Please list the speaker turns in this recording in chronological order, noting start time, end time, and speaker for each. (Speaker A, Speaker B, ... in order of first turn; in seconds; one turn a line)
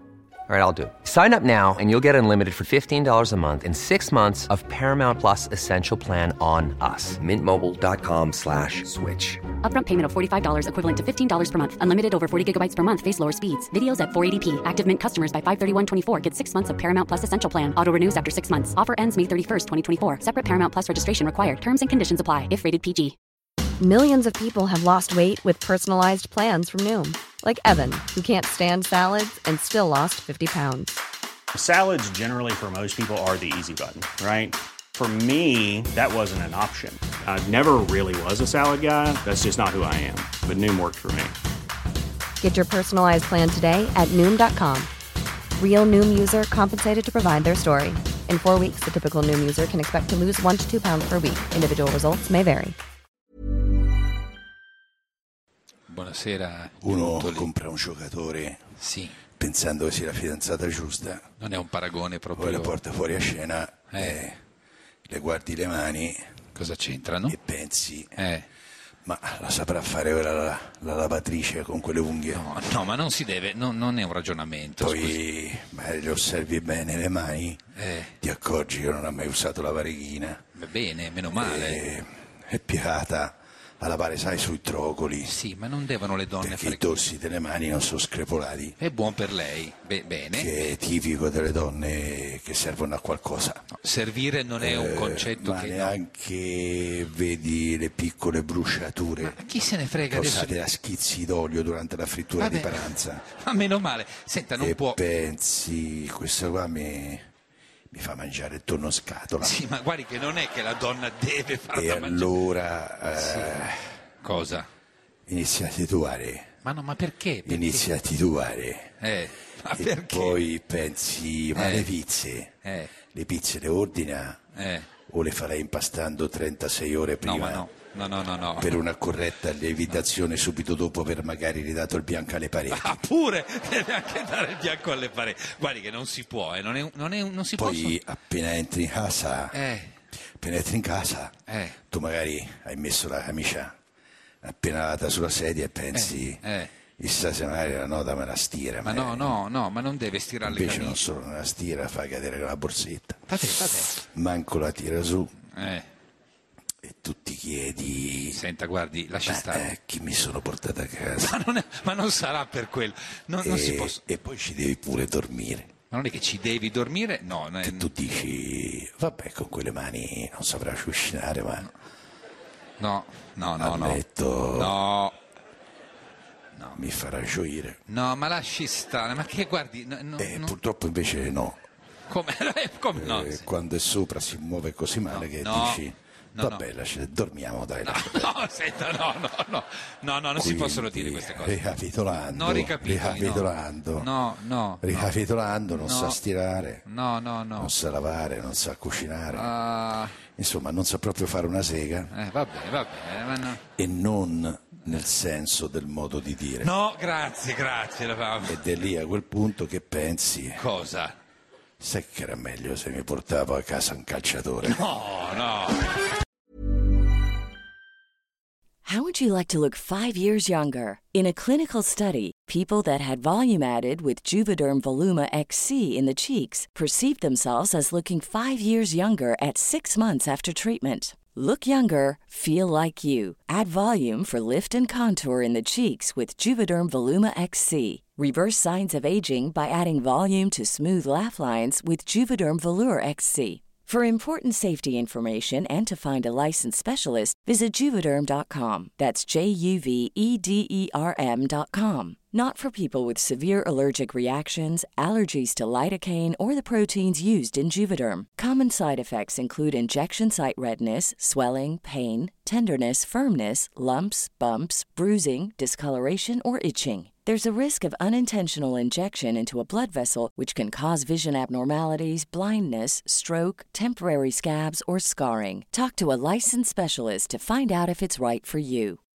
Speaker A: 0.5-8.8
Speaker B: 9.6-23.1
Speaker C: 23.8-31.0
Speaker D: 31.6-41.3
Speaker C: 42.4-44.9
Speaker C: 45.6-52.8
Speaker E: 55.9-57.5
Speaker F: 56.8-58.6
Speaker E: 58.8-59.2
Speaker F: 59.4-61.3
Speaker E: 61.4-62.8
Speaker F: 62.4-64.4
Speaker E: 63.9-64.2
Speaker F: 65.1-66.2
Speaker E: 66.5-67.4
Speaker F: 67.3-68.1
Speaker E: 68.2-68.5
Speaker F: 69.0-72.4
Speaker E: 72.3-75.2
Speaker F: 74.8-77.6
Speaker E: 77.7-78.1
Speaker F: 78.2-80.4
Speaker E: 80.5-81.8
Speaker F: 81.4-85.3
Speaker E: 85.2-87.0
Speaker F: 86.4-88.8
Speaker E: 88.8-90.7
Speaker F: 90.3-93.6
Speaker E: 93.8-96.0
Speaker F: 94.6-99.4
Speaker E: 99.2-100.6
Speaker F: 100.1-103.2
Speaker E: 102.4-105.0
Speaker F: 104.6-107.2
Speaker F: 107.9-109.6
Speaker E: 109.4-112.3
Speaker F: 111.7-114.0
Speaker E: 113.1-113.7
Speaker E: 114.2-114.7
Speaker F: 115.3-116.5
Speaker E: 116.6-117.9
Speaker F: 117.5-119.0
Speaker E: 119.0-120.4
Speaker F: 119.7-124.4
Speaker E: 121.5-121.9
Speaker E: 122.6-122.9
Speaker E: 124.5-124.9
Speaker F: 125.1-127.7
Speaker E: 127.2-128.8
Speaker F: 128.6-133.0
Speaker E: 132.7-138.0
Speaker F: 137.6-139.6
Speaker E: 139.5-139.9
Speaker F: 140.4-143.7
Speaker E: 141.5-141.8
Speaker F: 144.4-146.4
Speaker E: 145.9-146.7
Speaker F: 147.0-149.4
Speaker E: 148.8-151.0
Speaker F: 150.4-153.2
Speaker E: 153.3-153.9
Speaker F: 153.9-155.3
Speaker E: 155.5-155.9
Speaker F: 156.8-158.4
Speaker E: 158.3-159.7
Speaker F: 159.2-161.3
Speaker E: 161.2-164.0
Speaker F: 163.4-165.7
Speaker E: 165.9-167.9
Speaker F: 167.6-171.7
Speaker E: 172.8-174.0
Speaker F: 173.6-174.7
Speaker E: 174.5-175.2
Speaker E: 176.5-176.8
Speaker F: 176.7-177.8
Speaker E: 177.9-180.5
Speaker F: 180.2-181.6
Speaker E: 182.1-183.5
Speaker F: 182.9-188.3
Speaker E: 185.1-186.7
Speaker E: 187.8-191.6
Speaker F: 190.3-194.1
Speaker E: 192.3-195.1
Speaker F: 194.8-196.8
Speaker E: 195.7-196.2
Speaker E: 196.8-197.7
Speaker F: 197.6-199.5
Speaker E: 199.3-200.2
Speaker F: 200.3-202.1
Speaker E: 202.1-203.6
Speaker F: 203.8-206.7
Speaker E: 206.6-208.8
Speaker F: 208.4-210.6
Speaker E: 210.6-211.1
Speaker F: 211.8-214.8
Speaker E: 214.6-215.9
Speaker G: 218.8-279.0